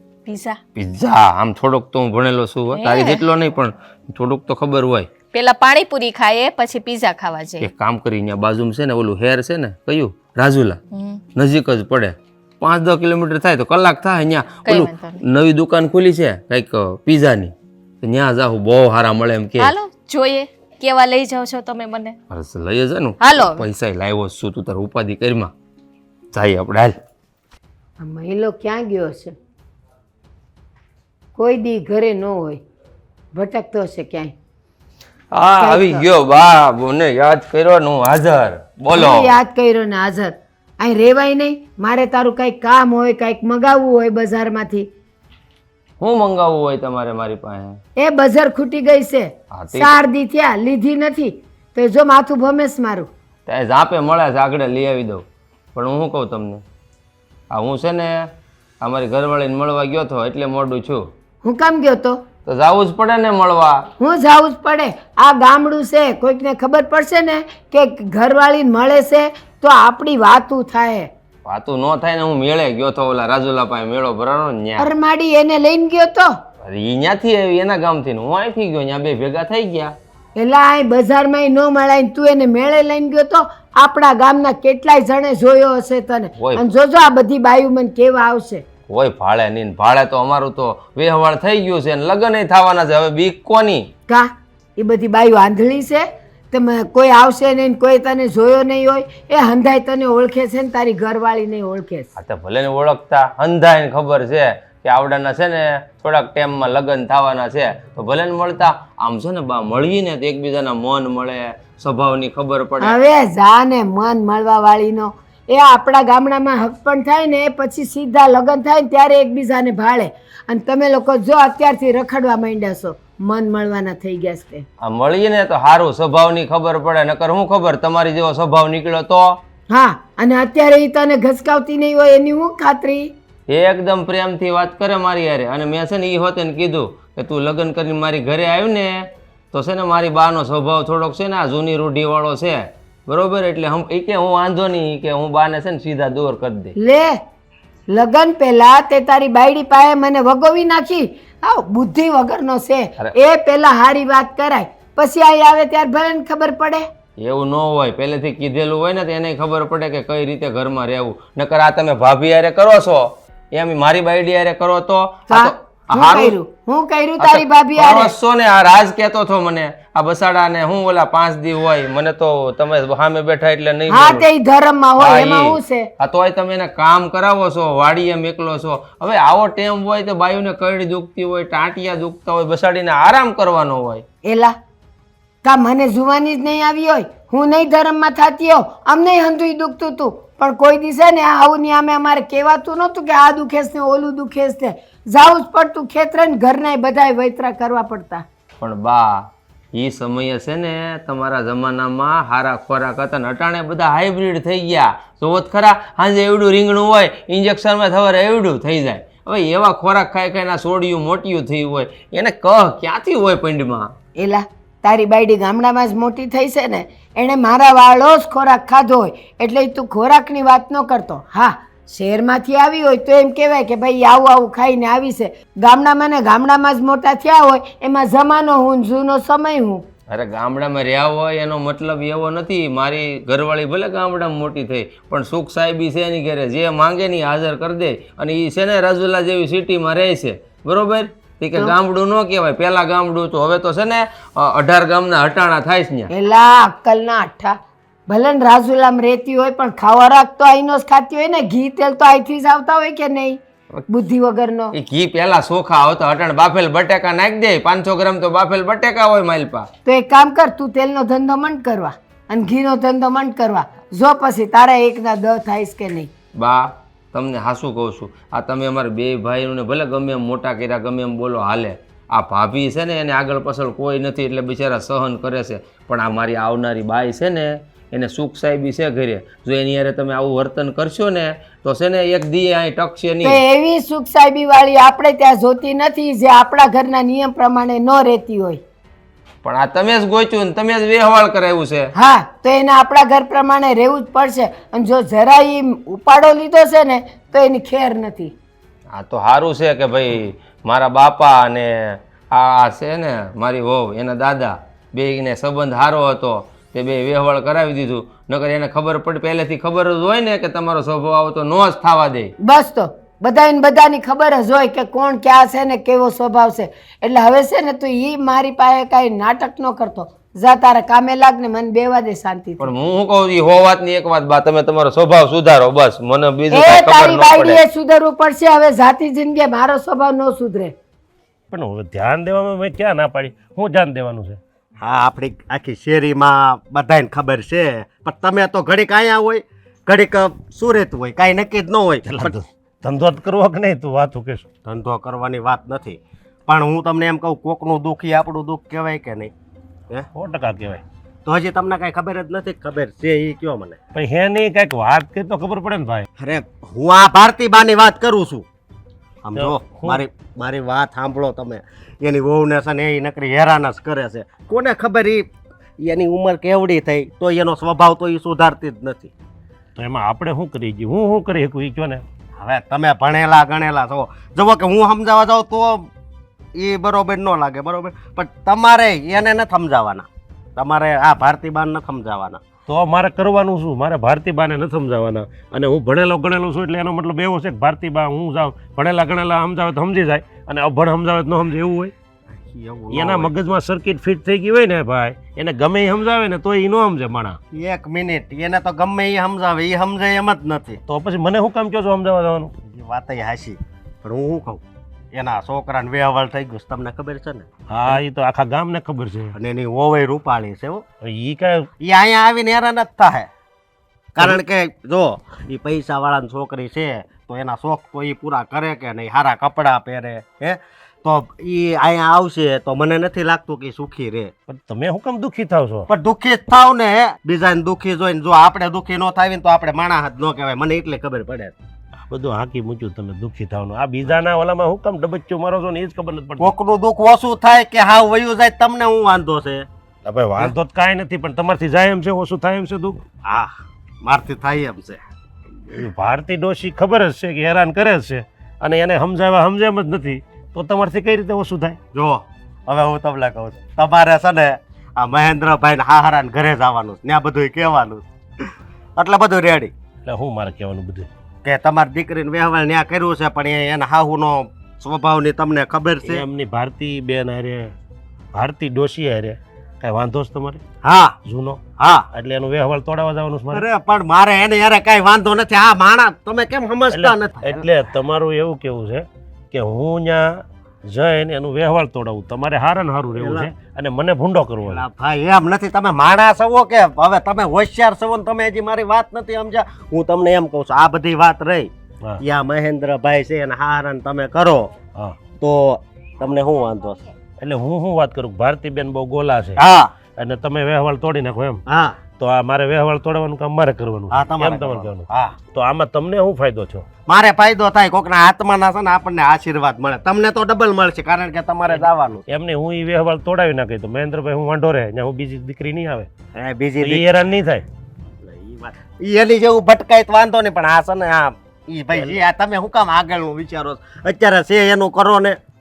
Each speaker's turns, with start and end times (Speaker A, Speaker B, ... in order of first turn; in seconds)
Speaker A: 0.2-0.6, 2.7-3.3, 5.3-7.7, 10.9-11.2, 14.6-15.2, 19.6-22.2, 23.2-23.6
Speaker B: 0.8-5.1, 7.6-10.8, 11.4-19.7, 22.3-25.5, 26.3-27.0, 35.3-39.4, 46.0-47.8, 49.5-50.0, 53.5-55.2, 55.8-56.6, 57.5-58.2, 58.8-61.0, 62.5-63.8, 71.5-74.9, 76.6-79.9, 86.4-86.6, 88.9-93.9, 102.2-113.0, 124.8-129.4, 133.5-139.0, 139.5-146.7, 157.2-166.4, 167.2-174.3, 175.0-184.0, 198.6-213.9, 230.1-246.1, 254.7-259.7, 266.4-283.4, 289.4-291.9, 298.9-312.3, 322.6-327.6
Speaker C: 28.0-29.4, 31.4-32.6, 33.3-34.3, 35.6-36.0, 38.9-44.9, 48.0-53.1, 61.4-62.2, 64.0-71.1, 74.8-76.3, 80.4-88.6, 94.1-102.1, 112.8-124.6, 129.7-133.1, 146.8-147.1, 147.9-156.8, 165.3-168.1, 173.9-175.9, 184.2-184.5, 185.4-198.2, 214.2-229.8, 246.1-254.7, 259.9-266.1, 283.2-288.6, 291.9-298.3, 312.4-322.7, 326.5-330.7
Speaker D: 331.5-334.4, 342.0-344.5, 350.1-350.8, 353.9-356.1, 359.3-360.0, 369.8-372.0, 382.7-391.9, 392.9-397.4, 400.9-402.5, 407.7-409.3, 411.0-411.7, 414.2-414.4, 424.5-425.9, 432.1-436.5, 440.0-443.0, 445.7-451.8, 460.0-461.1, 466.0-467.8, 468.4-470.6, 471.2-473.7, 476.9-484.9, 494.9-495.2, 497.4-499.6, 500.1-506.9, 511.6-516.1, 516.8-517.6, 521.9-522.2
Speaker E: 334.8-342.3, 344.6-349.3, 351.2-353.8, 356.2-358.4, 359.2-365.3, 365.8-369.1, 372.4-375.9, 376.5-382.4, 392.3-393.3, 397.5-400.8, 402.7-404.6, 405.1-407.5, 409.4-410.8, 411.8-413.3, 414.2-424.3, 425.9-431.5, 436.4-439.7, 443.3-443.5, 444.0-445.0, 451.9-459.7, 461.4-466.0, 470.9-471.1, 473.5-477.6, 484.7-491.7, 492.2-494.7, 495.4-497.1, 501.7-502.0, 504.1-505.3, 507.1-512.2, 516.4-517.0, 518.2-525.4